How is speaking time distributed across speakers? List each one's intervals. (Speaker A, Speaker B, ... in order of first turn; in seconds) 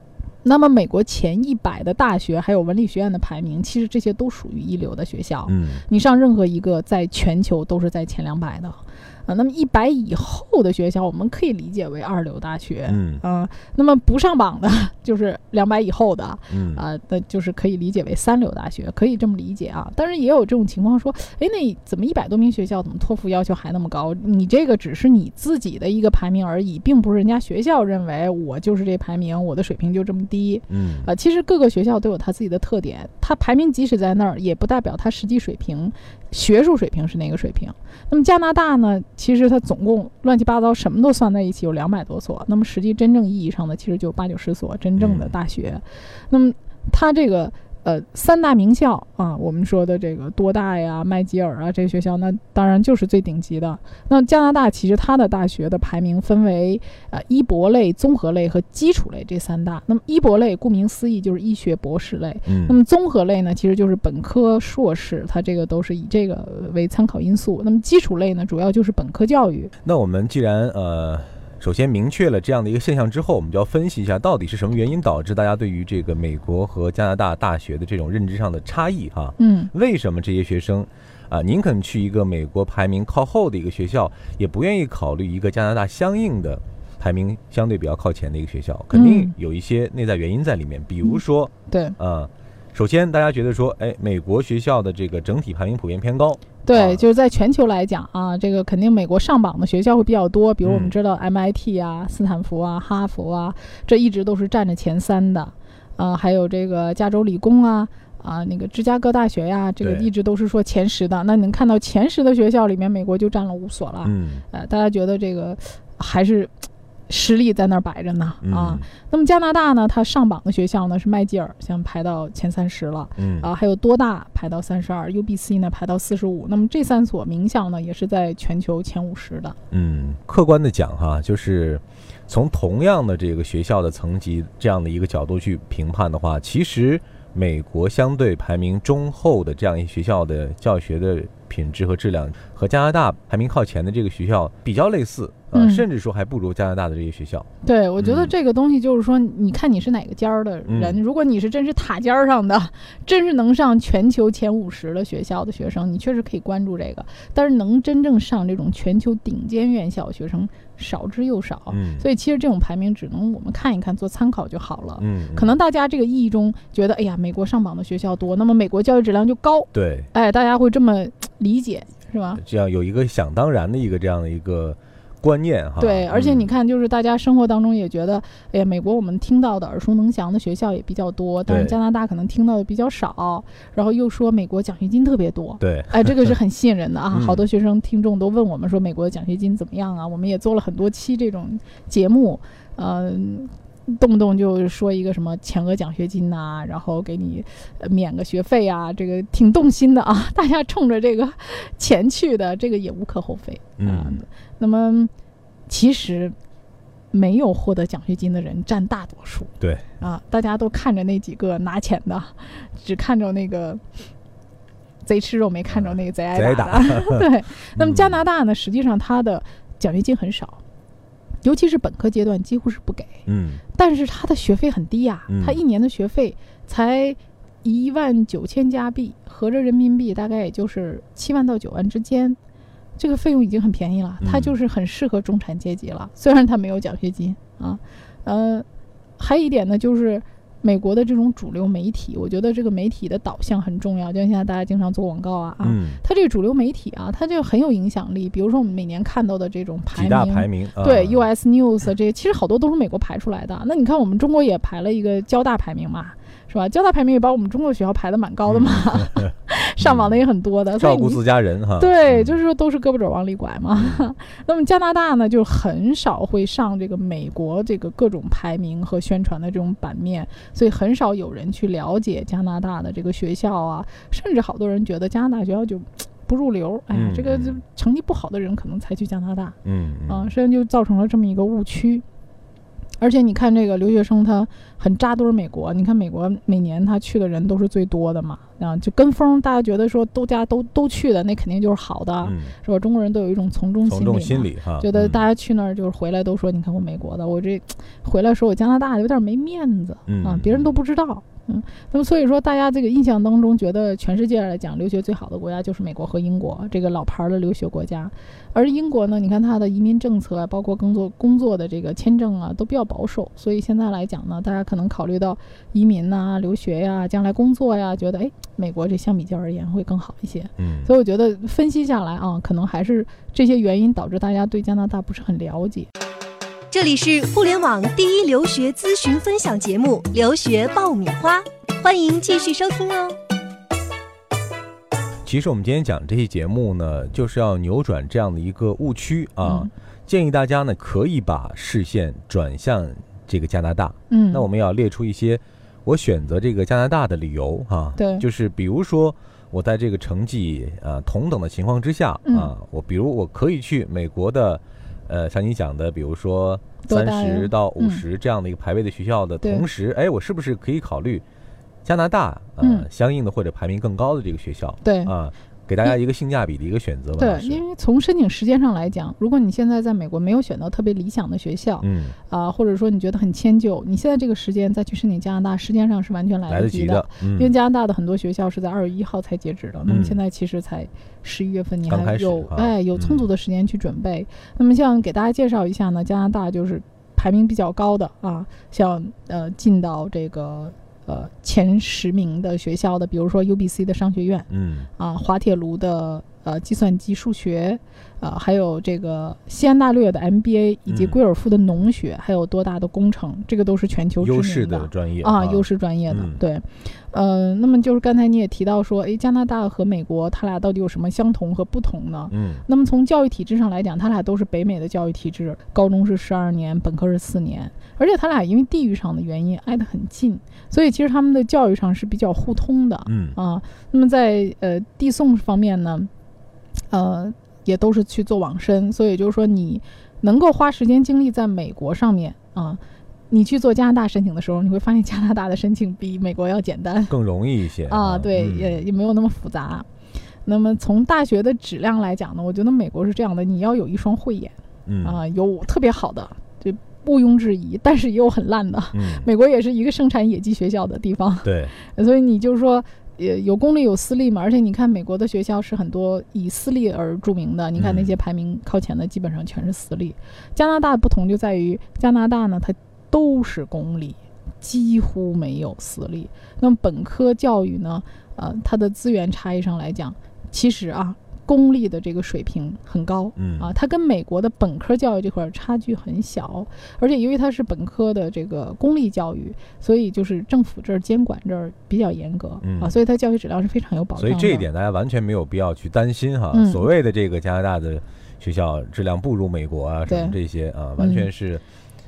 Speaker A: 0.4-69.7, 79.4-79.7, 88.9-89.3, 91.0-92.0, 96.6-116.5, 117.1-129.6, 145.5-145.8, 147.6-172.4, 175.8-205.1, 205.7-206.3, 207.1-213.8, 215.0-220.6, 221.4-223.2, 223.8-232.4, 233.0-238.7, 239.2-261.2, 261.8-279.6, 280.1-282.1, 283.0-325.9, 339.4-339.7, 344.1-344.5, 348.0-348.2, 352.2-352.5, 356.9-358.0, 362.6-362.9, 364.8-365.1, 367.2-394.5, 395.0-426.1, 426.9-437.1, 437.9-439.9, 440.4-484.7, 486.5-486.9, 490.1-490.4, 491.0-491.3
Speaker B: 5.5-5.8, 12.9-13.2, 16.5-16.8, 30.7-31.1, 45.0-45.4, 62.5-62.8, 69.8-97.0, 100.6-100.9, 109.8-110.1, 114.0-114.5, 118.4-118.8, 123.2-123.5, 129.7-147.5, 148.0-148.3, 150.7-151.0, 161.7-162.1, 165.0-165.6, 169.7-170.1, 172.3-176.5, 181.5-181.8, 185.6-186.3, 187.1-187.4, 203.8-204.2, 209.6-209.8, 215.7-218.2, 223.3-223.6, 225.3-225.6, 234.2-234.6, 245.6-246.0, 249.9-251.3, 258.5-259.3, 259.8-260.2, 260.8-262.4, 263.8-264.1, 276.9-277.6, 279.6-280.3, 292.2-292.6, 293.9-295.2, 300.1-300.8, 320.6-320.9, 335.2-361.2, 361.8-367.6, 371.8-372.2, 376.5-377.5, 379.9-380.2, 381.9-383.3, 394.5-394.9, 400.9-401.2, 404.2-406.4, 412.3-412.6, 423.1-423.4, 437.1-438.8, 444.9-445.2, 448.9-449.3, 451.4-451.7, 457.8-458.1, 473.4-473.7, 482.6-483.0, 484.2-491.6
Speaker C: 326.7-333.2